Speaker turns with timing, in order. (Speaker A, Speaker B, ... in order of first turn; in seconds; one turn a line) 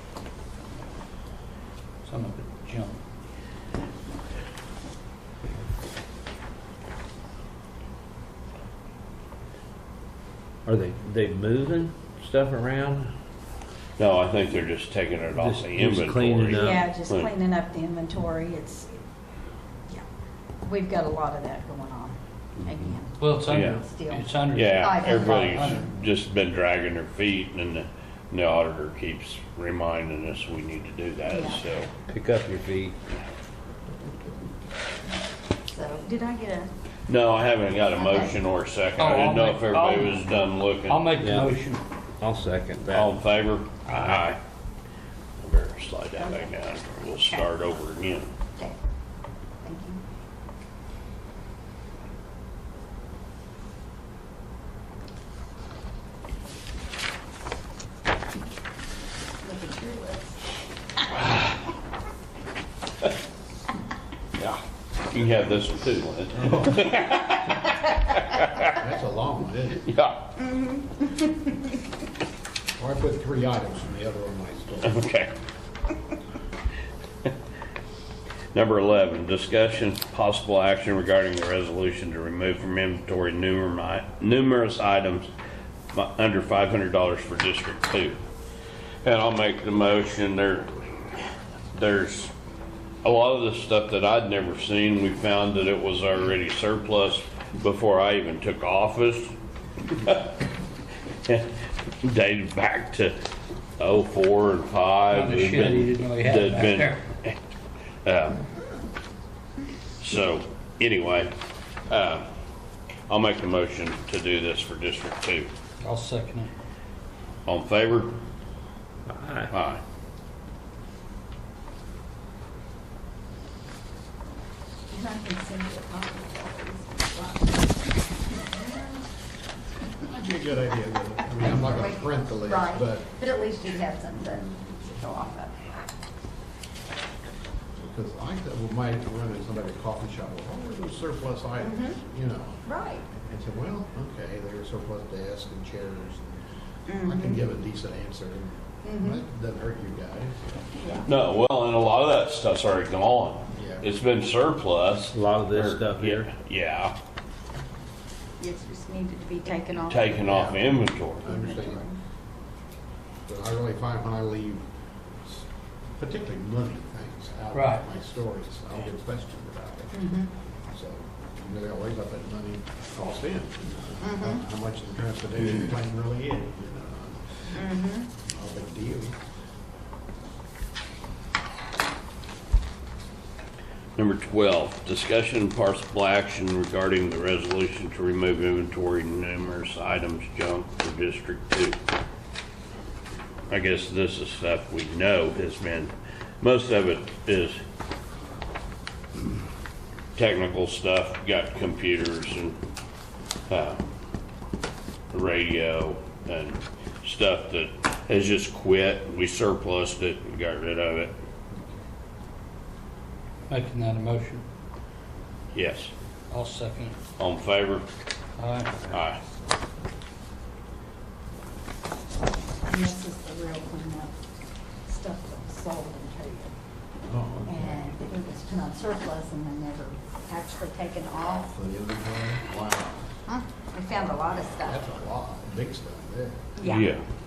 Speaker A: 2.0-3.0
Speaker B: 10.7-13.1
Speaker C: 14.0-17.3
Speaker B: 15.3-16.9
Speaker D: 16.5-19.0
Speaker D: 20.6-25.7
Speaker A: 23.2-25.8
Speaker C: 23.5-23.8
Speaker C: 24.5-31.9
Speaker D: 31.3-31.6
Speaker B: 32.1-32.9
Speaker D: 35.7-36.7
Speaker C: 37.1-41.1
Speaker D: 37.9-38.4
Speaker A: 39.0-41.8
Speaker B: 41.2-41.6
Speaker B: 42.2-43.1
Speaker C: 42.9-44.4
Speaker C: 45.4-48.3
Speaker D: 46.2-46.5
Speaker D: 49.6-50.0
Speaker D: 59.4-60.4
Speaker C: 64.4-68.7
Speaker E: 66.3-67.0
Speaker E: 68.7-69.9
Speaker C: 69.8-70.4
Speaker D: 70.4-71.7
Speaker E: 72.8-75.0
Speaker C: 74.8-75.3
Speaker C: 78.5-85.3
Speaker C: 85.9-88.2
Speaker C: 89.0-91.2
Speaker C: 91.7-92.3
Speaker C: 93.0-99.3
Speaker C: 99.9-100.4
Speaker C: 101.2-103.2
Speaker C: 103.8-107.4
Speaker A: 105.1-107.0
Speaker C: 108.0-108.4
Speaker C: 110.0-111.3
Speaker C: 111.9-112.3
Speaker C: 113.1-115.5
Speaker A: 115.8-116.5
Speaker C: 117.5-118.1
Speaker B: 119.1-119.5
Speaker C: 119.5-119.8
Speaker D: 124.9-127.7
Speaker D: 128.2-129.0
Speaker E: 130.0-133.1
Speaker D: 131.4-135.7
Speaker E: 137.8-146.4
Speaker D: 141.6-142.0
Speaker D: 142.7-143.1
Speaker D: 146.9-147.4
Speaker E: 147.0-150.8
Speaker D: 148.8-149.2
Speaker D: 150.8-151.1
Speaker C: 151.0-156.9
Speaker E: 153.5-153.8
Speaker B: 155.1-156.3
Speaker D: 158.4-160.2
Speaker C: 159.9-161.3
Speaker E: 160.1-161.9
Speaker D: 161.2-161.9
Speaker E: 163.2-164.6
Speaker E: 166.0-170.1
Speaker A: 167.5-167.8
Speaker D: 169.9-170.3
Speaker E: 170.7-177.4
Speaker D: 174.0-174.4
Speaker D: 177.5-178.1
Speaker E: 178.2-179.2
Speaker C: 183.9-191.8
Speaker C: 193.5-197.6
Speaker C: 200.2-202.6
Speaker C: 203.5-203.9
Speaker C: 205.1-211.1
Speaker A: 213.5-214.4
Speaker C: 215.5-215.9
Speaker A: 216.3-216.9
Speaker C: 217.2-217.8
Speaker A: 218.4-218.7
Speaker C: 218.9-219.2
Speaker D: 222.6-224.1
Speaker D: 224.9-226.5
Speaker E: 227.0-227.9
Speaker D: 227.4-231.5
Speaker E: 231.4-233.1
Speaker D: 233.3-234.8
Speaker E: 234.3-236.4
Speaker D: 236.6-236.9
Speaker C: 236.6-237.0